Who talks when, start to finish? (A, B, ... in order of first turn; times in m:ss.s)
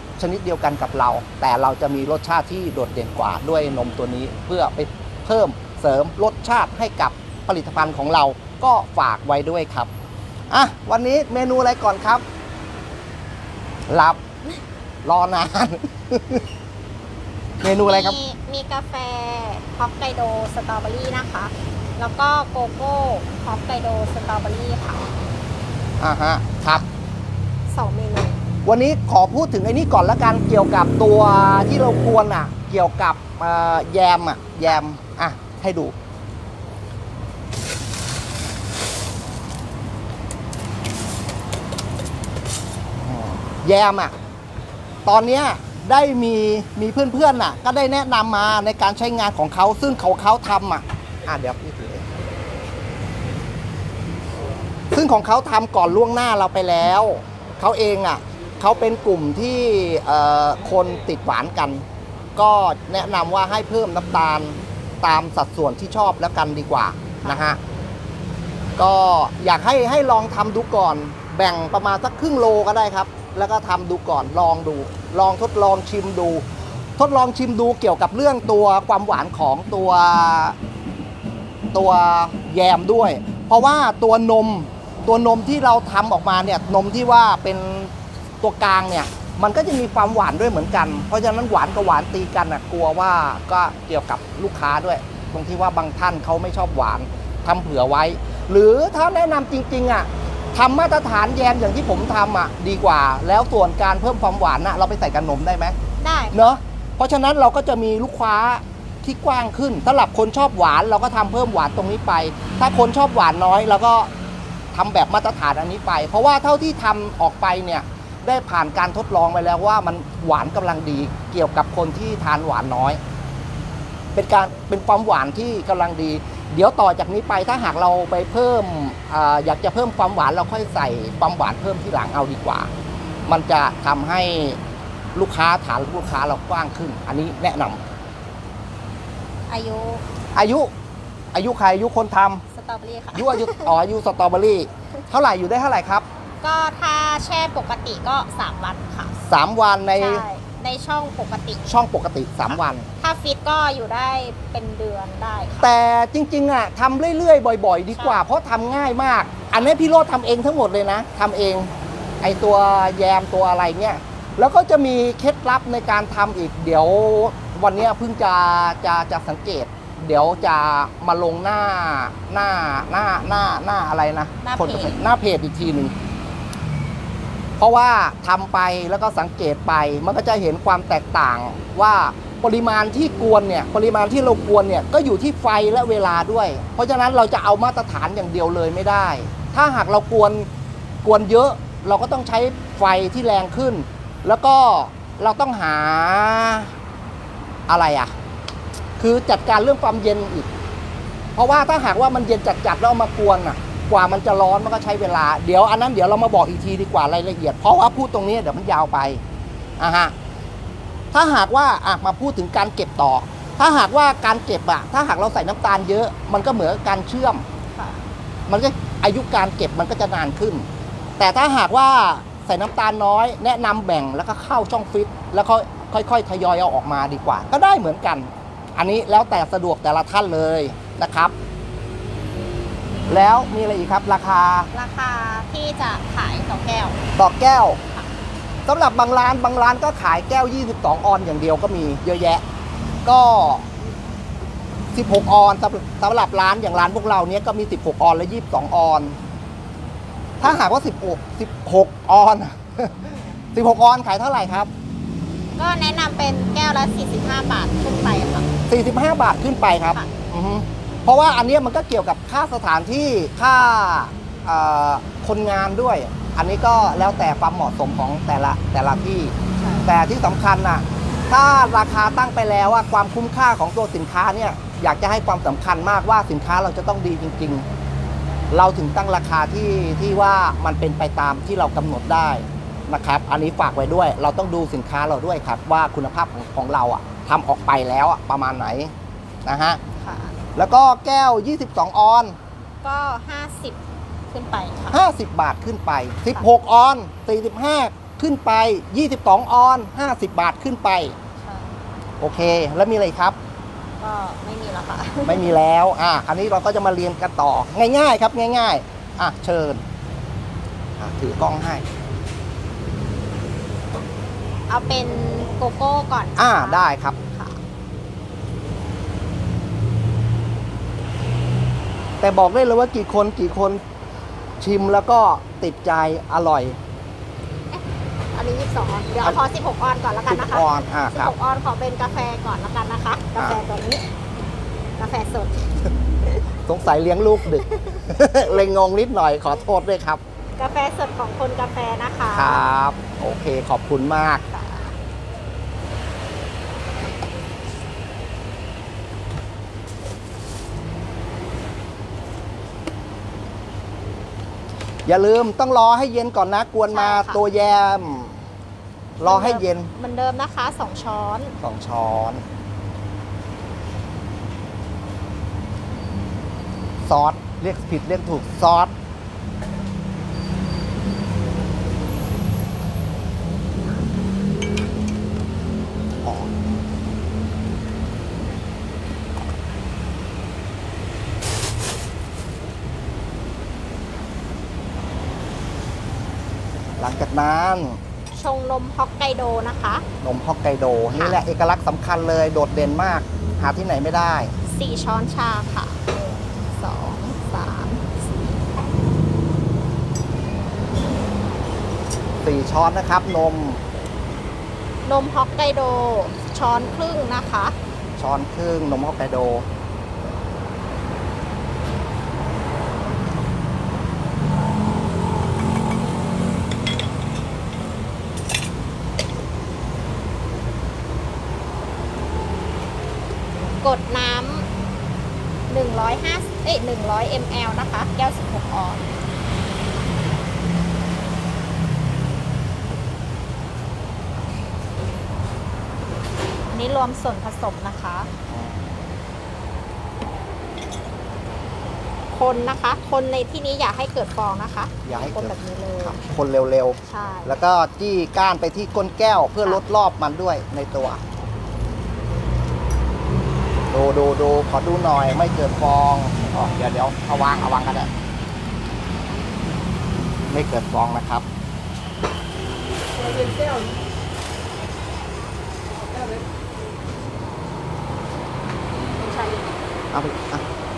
0:00.2-0:09.9 A
0:10.5-0:12.2 A
0:13.9-0:14.2 A
0:15.0-0:16.4 A
0:17.6-0:18.2 A
0:17.8-0:25.1 B
0:26.0-0:26.8 A
0:27.7-0:28.4 B
0:28.6-0:35.9 A
0:43.0-0:44.1 A
0:45.0-0:52.1 A
0:54.9-1:01.8 A
1:02.4-1:07.6 A
1:07.2-1:07.5 B
1:08.8-1:16.4 A
1:17.0-1:20.6 A
1:21.7-1:45.7 A
1:46.0-1:46.6 B
1:46.3-1:54.1 A
1:54.7-2:03.0 A
2:04.1-2:12.7 A
2:13.2-2:14.6 A
2:15.1-2:17.8 A
2:19.5-2:20.0 B
2:20.3-2:20.7 A
2:21.3-2:22.4 A
2:22.5-2:23.7 B
2:23.1-2:26.0 A
2:26.4-2:29.1 B
2:29.3-2:30.2 A
2:30.0-2:31.6 B
2:31.7-2:32.9 A
2:33.0-2:35.7 B
2:35.6-2:55.9 A
2:54.4-2:55.0 B
2:57.6-3:10.5 A
3:11.0-3:16.7 A
3:17.7-3:18.1 A
3:19.0-3:20.5 A
3:21.4-3:29.2 A
3:29.8-3:30.1 A
3:31.1-3:37.4 A
3:37.7-3:38.0 B
3:38.5-3:40.7 A
3:41.2-3:51.3 A
3:53.1-3:54.7 A
3:54.7-3:57.0 B
3:57.1-3:57.8 A
3:58.6-4:02.4 A
4:03.0-4:03.7 A
4:04.9-4:09.2 A
4:10.4-4:14.7 A
4:15.6-4:18.5 B
4:18.7-4:37.6 A
4:29.6-4:29.9 B
4:38.5-4:48.9 A
4:49.4-4:49.8 A
4:50.0-4:50.4 B
4:50.6-4:52.4 A
4:52.8-4:53.8 B
4:54.3-4:55.0 B
4:54.9-5:01.2 A
5:01.4-5:01.8 B
5:02.2-5:03.4 A
5:04.0-5:05.5 B
5:05.2-5:09.8 A
5:11.0-5:11.8 A
5:14.7-5:17.6 B
5:16.4-5:17.2 A
5:22.2-5:23.8 A
5:24.6-5:26.8 A
5:28.3-5:34.0 B
5:30.3-5:31.3 A
5:35.0-5:36.4 B
5:36.7-5:40.2 A
5:37.5-5:38.1 B
5:40.6-5:42.6 B
5:42.3-5:44.4 A
5:44.5-5:45.0 B
5:55.0-5:58.4 A
5:56.9-5:57.4 B
5:59.2-5:59.9 A
5:59.2-6:01.5 B
6:01.6-6:02.4 A
6:07.0-6:08.9 A
6:16.2-6:16.5 A
6:27.0-6:28.0 A
6:28.3-6:30.0 B
6:30.2-6:34.5 A
6:34.6-6:38.1 B
6:42.4-6:43.8 A
6:45.0-6:47.7 B
6:48.2-6:49.7 A
7:03.8-7:04.7 B
7:05.7-7:09.1 B
7:16.7-7:18.3 B
7:18.5-7:19.0 A
7:22.3-7:26.2 B
7:25.0-7:31.2 A
7:27.1-7:27.6 B
7:33.9-7:38.1 A
7:36.5-7:36.8 B
7:40.5-7:41.4 A
7:43.2-7:43.9 B
7:49.0-7:49.8 B
7:50.1-7:50.6 A